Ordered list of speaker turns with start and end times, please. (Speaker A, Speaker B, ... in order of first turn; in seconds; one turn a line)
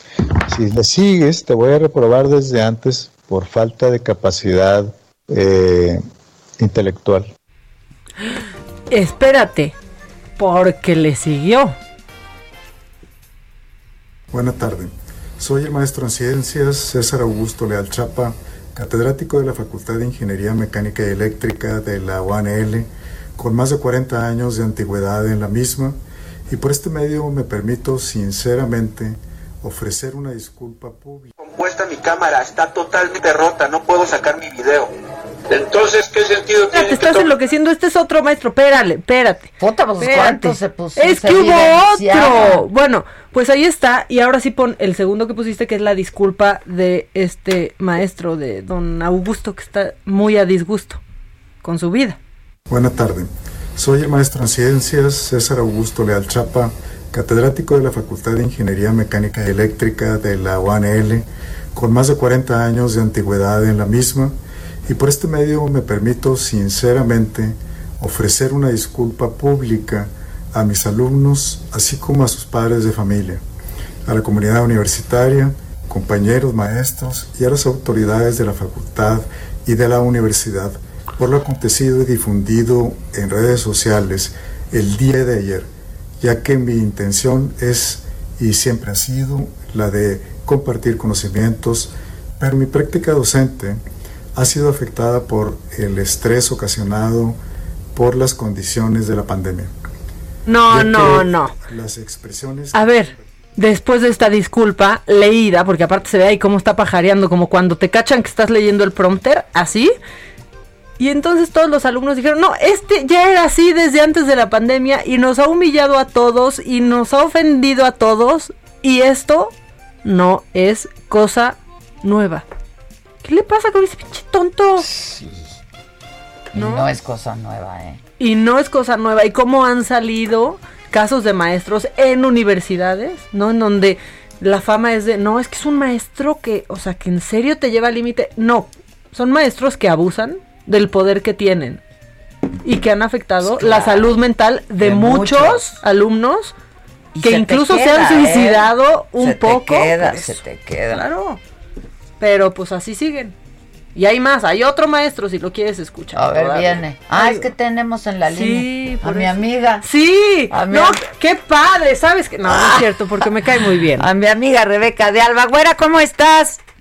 Speaker A: 0.5-6.0
Speaker A: 6.6-7.3
Speaker B: 8.9-9.7
Speaker B: 10.4-11.7
Speaker C: 14.3-26.0
Speaker C: 26.5-31.3
Speaker D: 31.4-34.9
Speaker D: 35.5-37.3
Speaker B: 36.7-51.0
Speaker E: 39.6-42.7
Speaker B: 51.6-52.2
Speaker C: 52.7-64.3
Speaker C: 64.8-73.4
Speaker C: 74.0-85.7
Speaker C: 86.2-93.8
Speaker C: 94.3-97.4
Speaker C: 97.9-99.7
Speaker B: 100.5-101.5
Speaker C: 100.7-103.2
Speaker B: 102.7-109.9
Speaker B: 111.0-119.5
Speaker B: 120.0-122.5
Speaker B: 123.2-124.9
Speaker E: 124.8-125.5
Speaker E: 126.5-128.0
Speaker B: 126.5-126.9
Speaker B: 128.2-141.8
Speaker B: 142.6-146.5
Speaker E: 143.4-144.1
Speaker E: 144.8-145.8
Speaker E: 147.1-151.1
Speaker B: 147.2-151.4
Speaker B: 152.2-153.3
Speaker B: 153.9-157.4
Speaker E: 156.1-159.9
Speaker B: 158.3-164.1
Speaker E: 160.5-161.0
Speaker E: 162.4-162.9
Speaker E: 163.9-166.6